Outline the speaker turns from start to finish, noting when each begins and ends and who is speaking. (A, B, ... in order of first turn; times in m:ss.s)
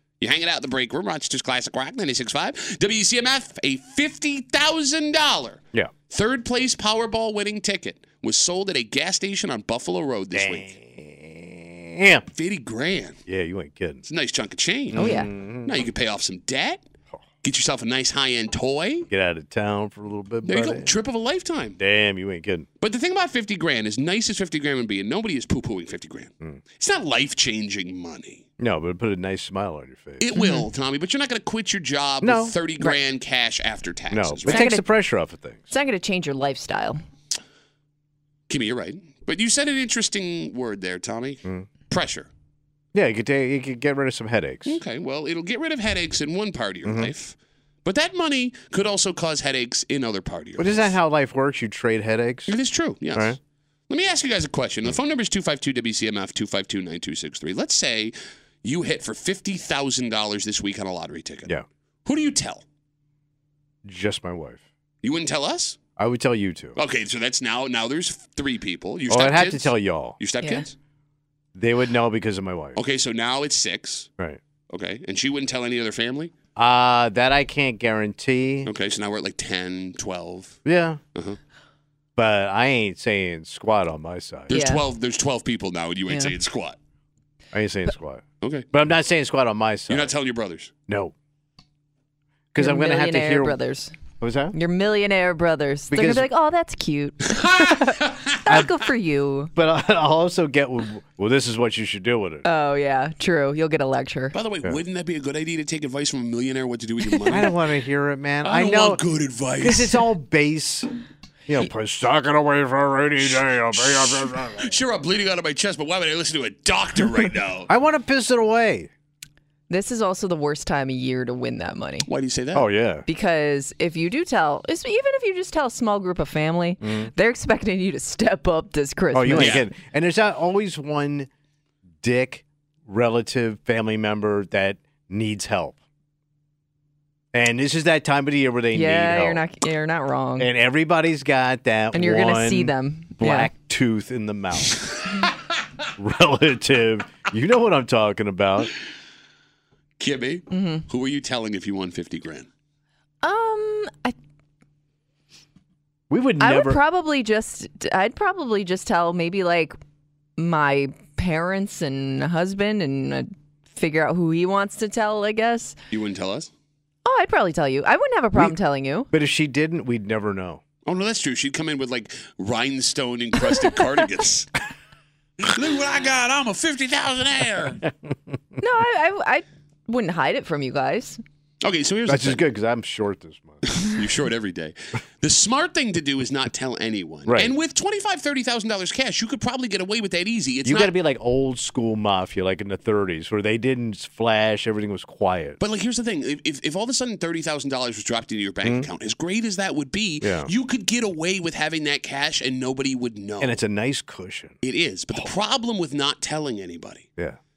0:00.2-0:10.7 A
0:10.3-0:12.3 B
0:12.3-0:13.2 A
0:13.3-0:14.0 B
0:14.0-0:16.8 A
0:14.9-0:15.8 B
0:15.0-0:15.3 C
0:17.4-0:19.1 A
0:19.1-0:20.9 B
0:20.4-0:21.8 A
0:21.8-0:22.7 B
0:22.8-0:28.4 A
0:28.6-0:30.3 B
0:30.2-0:34.7 A
0:30.3-0:30.6 C
0:32.2-0:32.6 B
0:34.1-0:35.6 B
0:34.4-0:34.8 C
0:35.7-0:37.0 C
0:38.5-0:42.3 A
0:42.9-0:44.8 B
0:44.6-0:51.0 A
0:46.8-0:47.1 B
0:50.6-0:52.6 B
0:52.5-0:53.4 A
0:53.1-0:53.4 B
0:53.9-1:01.5 A
1:02.0-1:02.6 A
1:03.8-1:04.6 B
1:05.0-1:05.8 A
1:06.0-1:06.8 B
1:06.7-1:10.7 A
1:09.1-1:10.2 B
1:10.4-1:10.6 C
1:11.5-1:12.8 B
1:12.7-1:14.1 A
1:14.7-1:16.3 A
1:16.6-1:18.7 B
1:18.6-1:20.6 A
1:20.6-1:21.0 B
1:22.2-1:24.5 B
1:24.5-1:26.8 A
1:24.5-1:24.8 C
1:27.5-1:30.1 B
1:28.4-1:28.7 A
1:29.9-1:30.7 A
1:30.9-1:31.1 B
1:32.5-1:33.6 B
1:32.6-1:33.9 C
1:34.2-1:34.5 B
1:34.5-1:39.5 C
1:35.9-1:36.3 B
1:37.3-1:38.6 A
1:39.5-1:42.4 B
1:42.4-1:44.3 C
1:44.3-1:47.6 A
1:47.3-1:49.0 B
1:48.4-1:50.0 A
1:49.6-1:50.9 B
1:51.5-1:54.8 B
1:53.2-1:57.7 A
1:57.7-1:58.9 B
1:59.7-2:02.1 C
2:02.0-2:02.7 A
2:02.5-2:03.1 B
2:03.0-2:09.6 C
2:06.8-2:07.1 B
2:09.1-2:11.3 B
2:09.4-2:09.7 A
2:12.0-2:15.8 B
2:17.3-2:19.4 B
2:18.7-2:20.5 C
2:20.4-2:24.8 B
2:21.9-2:23.5 C
2:26.0-2:28.7 B
2:30.0-2:32.5 A
2:30.5-2:30.8 C
2:33.2-2:34.2 C
2:36.1-2:36.8 B
2:36.4-2:39.8 C
2:40.4-2:45.7 C
2:45.9-2:46.5 A
2:47.0-2:49.1 C
2:49.1-2:50.6 B
2:50.8-2:54.6 A
2:55.4-2:57.9 A
2:58.6-3:01.2 C
3:01.6-3:02.4 A
3:02.1-3:03.6 B
3:03.6-3:10.9 A
3:07.3-3:07.5 B
3:10.6-3:15.6 B
3:15.6-3:23.6 A
3:20.2-3:20.5 B
3:23.4-3:24.5 B
3:24.6-3:27.1 A